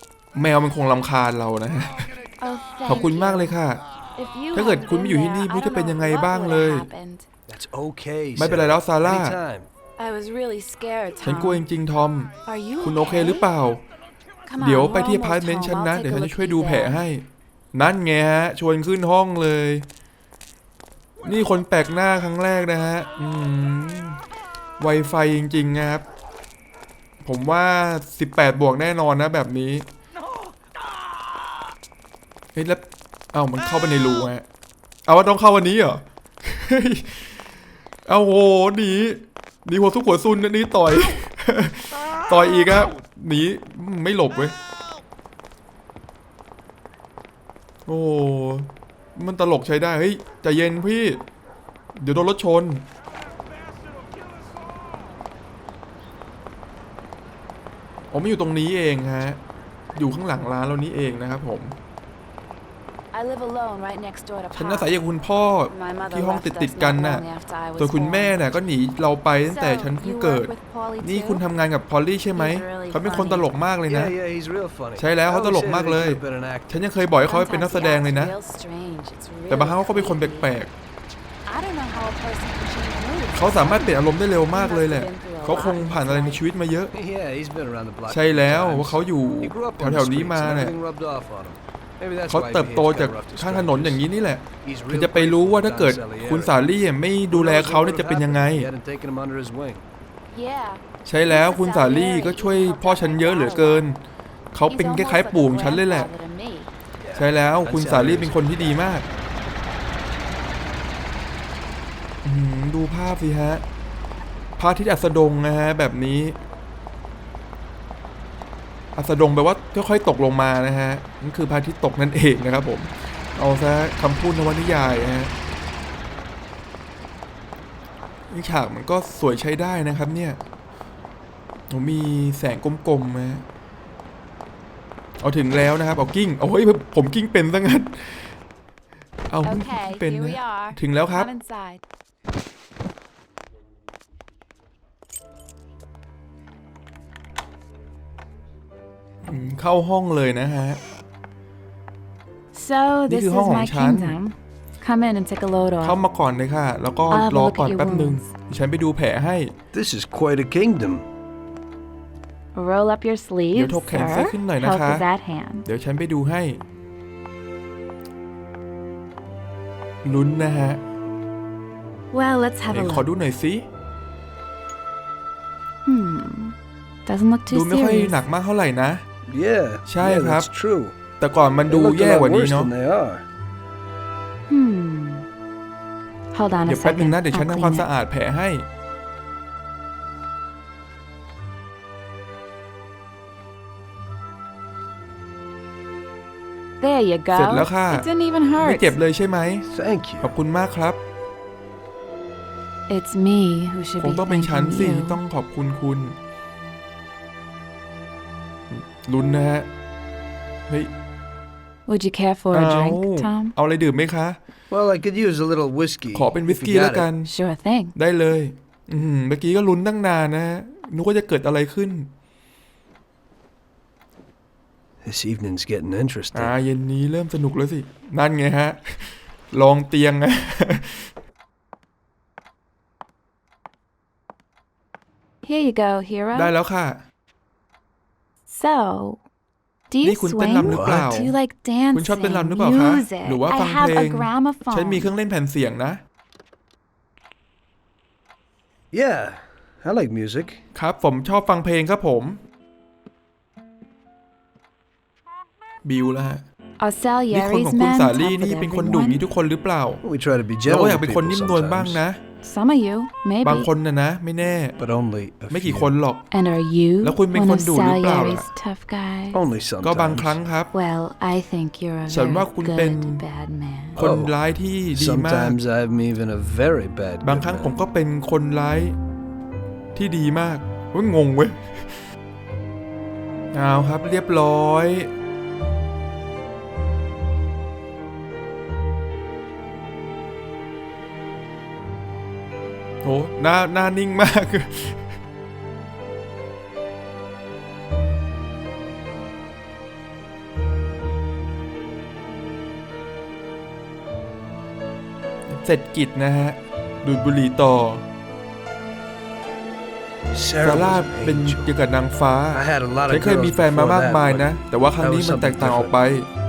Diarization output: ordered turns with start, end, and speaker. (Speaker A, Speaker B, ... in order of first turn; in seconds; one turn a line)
Speaker A: 0.3-2.1
Speaker B: 2.4-3.6
Speaker A: 2.8-3.8
Speaker B: 4.1-7.2
Speaker A: 4.5-6.9
Speaker C: 7.5-9.7
Speaker A: 8.3-9.4
Speaker B: 10.0-11.6
Speaker A: 11.2-13.8
Speaker B: 12.4-13.5
Speaker B: 14.4-16.9
Speaker A: 14.6-19.8
Speaker A: 21.2-24.2
Speaker A: 24.8-26.0
Speaker A: 27.2-29.8
Speaker A: 32.5-34.4
Speaker A: 35.1-37.2
Speaker A: 38.0-44.5
Speaker A: 47.9-51.2
Speaker A: 52.0-52.8
Speaker A: 58.1-59.4
Speaker A: 59.9-61.7
Speaker B: 63.1-65.0
Speaker A: 64.5-67.2
Speaker B: 65.7-68.4
Speaker A: 67.8-74.1
Speaker B: 69.5-71.4
Speaker B: 72.3-73.5
Speaker C: 73.9-76.7
Speaker A: 75.0-78.3
Speaker B: 77.2-80.5
Speaker A: 79.5-80.7
Speaker B: 81.5-86.4
Speaker A: 83.3-86.9
Speaker C: 86.9-94.0
Speaker A: 88.1-90.8
Speaker A: 92.3-98.7
Speaker C: 94.6-96.5
Speaker C: 97.3-99.8
Speaker B: 100.3-103.9
Speaker A: 101.0-104.0
Speaker A: 104.5-106.1
Speaker B: 104.7-106.7
Speaker C: 107.0-109.0
Speaker A: 107.2-109.0
Speaker A: 112.2-113.6
Speaker A: 114.6-116.3
Speaker A: 119.0-125.3
Speaker A: 128.3-130.4
Speaker A: 131.7-133.4
Speaker A: 135.2-138.3
Speaker A: 139.3-141.3
Speaker B: 139.4-141.8
Speaker A: 149.2-150.8
Speaker B: 152.5-156.0
Speaker A: 153.1-154.2
Speaker A: 155.8-159.5
Speaker B: 157.1-158.3
Speaker C: 159.7-161.0
Speaker B: 162.5-165.7
Speaker A: 163.5-165.0
Speaker A: 165.6-166.6
Speaker A: 170.0-170.8
Speaker B: 172.1-173.1
Speaker A: 172.7-173.7
Speaker B: 175.8-176.5
Speaker B: 177.1-178.2
Speaker A: 177.5-179.0
Speaker C: 179.2-180.9
Speaker A: 179.8-180.5
Speaker A: 181.2-182.7
Speaker C: 181.7-183.2
Speaker B: 184.5-185.2
Speaker B: 186.3-187.9
Speaker A: 186.7-188.6
Speaker B: 196.8-198.9
Speaker A: 197.3-198.1
Speaker A: 198.6-199.7
Speaker C: 199.7-200.3
Speaker A: 200.2-201.0
Speaker B: 202.9-205.2
Speaker A: 204.0-206.2
Speaker A: 208.7-209.7
Speaker B: 211.9-213.5
Speaker A: 212.5-214.4
Speaker C: 214.7-217.1
Speaker A: 216.1-217.3
Speaker B: 217.2-217.9
Speaker A: 217.9-222.1
Speaker C: 225.0-226.5
Speaker A: 226.3-231.1
Speaker B: 235.4-236.5
Speaker A: 236.3-237.0
Speaker B: 238.5-239.2
Speaker B: 239.9-245.1
Speaker A: 240.0-241.3
Speaker C: 240.6-241.0
Speaker A: 241.9-246.0
Speaker C: 248.9-250.6
Speaker A: 250.7-252.4
Speaker A: 255.8-256.4
Speaker B: 256.8-259.2
Speaker A: 257.3-260.0
Speaker C: 260.0-262.0
Speaker A: 260.7-262.2
Speaker B: 262.4-263.7
Speaker A: 263.4-264.8
Speaker C: 264.8-265.9
Speaker A: 265.5-266.2
Speaker B: 266.3-269.4
Speaker A: 267.0-268.4
Speaker C: 269.3-270.4
Speaker A: 269.8-270.7
Speaker B: 270.7-274.0
Speaker A: 272.1-273.2
Speaker A: 273.9-275.6
Speaker C: 274.0-274.4
Speaker C: 274.9-277.8
Speaker A: 277.2-278.9
Speaker A: 279.9-282.0
Speaker A: 283.5-285.1
Speaker A: 293.0-295.1
Speaker A: 305.5-308.0
Speaker C: 310.3-311.7
Speaker A: 310.6-316.3
Speaker C: 312.5-315.9